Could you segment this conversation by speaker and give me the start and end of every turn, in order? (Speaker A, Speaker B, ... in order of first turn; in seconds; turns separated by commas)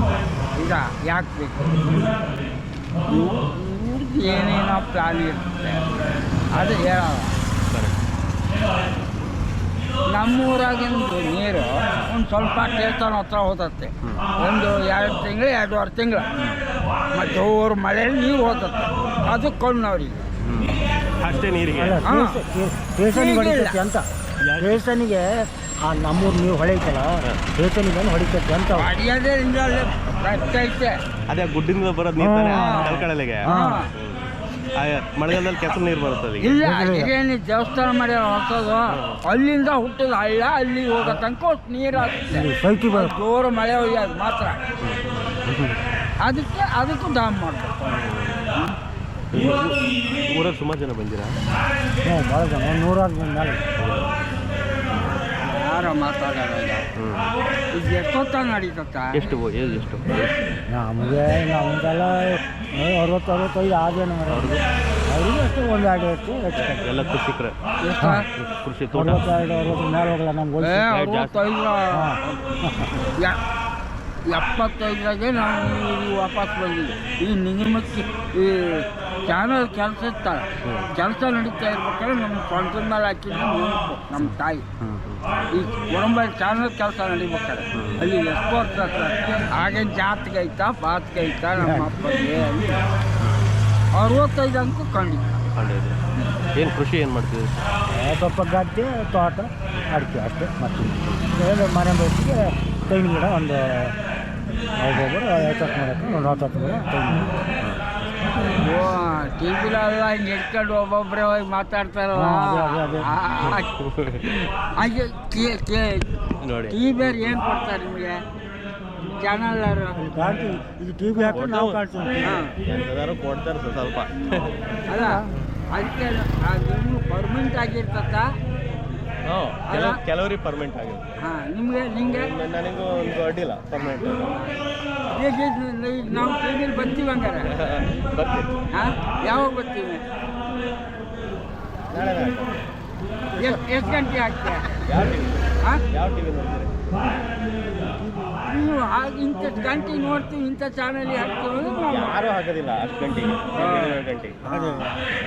Speaker A: 0.6-1.9, Speaker A: 3.1-5.9, Speaker A: 6.5-7.3, Speaker B: 7.7-8.0, Speaker A: 10.1-16.3, Speaker A: 17.1-20.3, Speaker B: 20.4-22.0, Speaker C: 21.4-24.1, Speaker A: 22.1-22.4, Speaker A: 23.1-23.8, Speaker B: 24.4-24.8, Speaker C: 24.6-28.9, Speaker A: 28.7-31.0, Speaker B: 31.3-36.6, Speaker C: 32.2-33.9, Speaker A: 32.5-33.9, Speaker A: 36.4-44.6, Speaker C: 36.6-37.1, Speaker B: 38.9-39.2, Speaker C: 42.3-43.2, Speaker B: 44.8-45.8, Speaker A: 46.2-47.8, Speaker B: 47.9-48.4, Speaker B: 49.3-51.4, Speaker C: 52.0-53.7, Speaker B: 53.8-55.2, Speaker A: 55.4-56.9, Speaker B: 57.0-57.3, Speaker A: 57.7-59.3, Speaker B: 59.1-60.4, Speaker C: 60.7-66.9, Speaker B: 64.3-64.6, Speaker B: 66.6-67.5, Speaker A: 67.8-68.3, Speaker C: 68.0-68.3, Speaker B: 68.3-69.2, Speaker C: 68.9-70.9, Speaker A: 70.6-72.2, Speaker B: 70.8-71.4, Speaker C: 71.9-72.9, Speaker A: 74.3-84.7, Speaker B: 80.6-80.9, Speaker B: 84.2-85.2, Speaker A: 85.5-92.8, Speaker B: 87.7-88.1, Speaker C: 91.6-91.9, Speaker A: 93.9-95.4, Speaker B: 95.5-96.0, Speaker B: 96.5-97.5, Speaker C: 97.9-104.0, Speaker C: 104.8-107.3, Speaker B: 107.6-107.9, Speaker A: 108.6-113.7, Speaker C: 112.1-113.2, Speaker B: 113.4-114.2, Speaker A: 114.2-116.1, Speaker B: 116.4-117.4, Speaker A: 116.7-118.2, Speaker A: 119.2-120.0, Speaker C: 120.0-122.5, Speaker B: 121.3-121.8, Speaker A: 122.2-122.6, Speaker B: 122.6-124.5, Speaker A: 124.9-128.4, Speaker B: 129.3-131.1, Speaker A: 129.7-130.0, Speaker A: 131.2-132.3, Speaker B: 132.1-134.3, Speaker A: 134.3-137.5, Speaker B: 137.5-138.6, Speaker A: 138.7-140.0, Speaker B: 141.9-142.6, Speaker C: 143.3-143.7, Speaker A: 143.4-144.8, Speaker B: 144.9-146.8, Speaker C: 147.8-148.4, Speaker A: 148.5-152.2, Speaker B: 151.9-154.4, Speaker A: 153.6-154.9, Speaker C: 154.5-155.0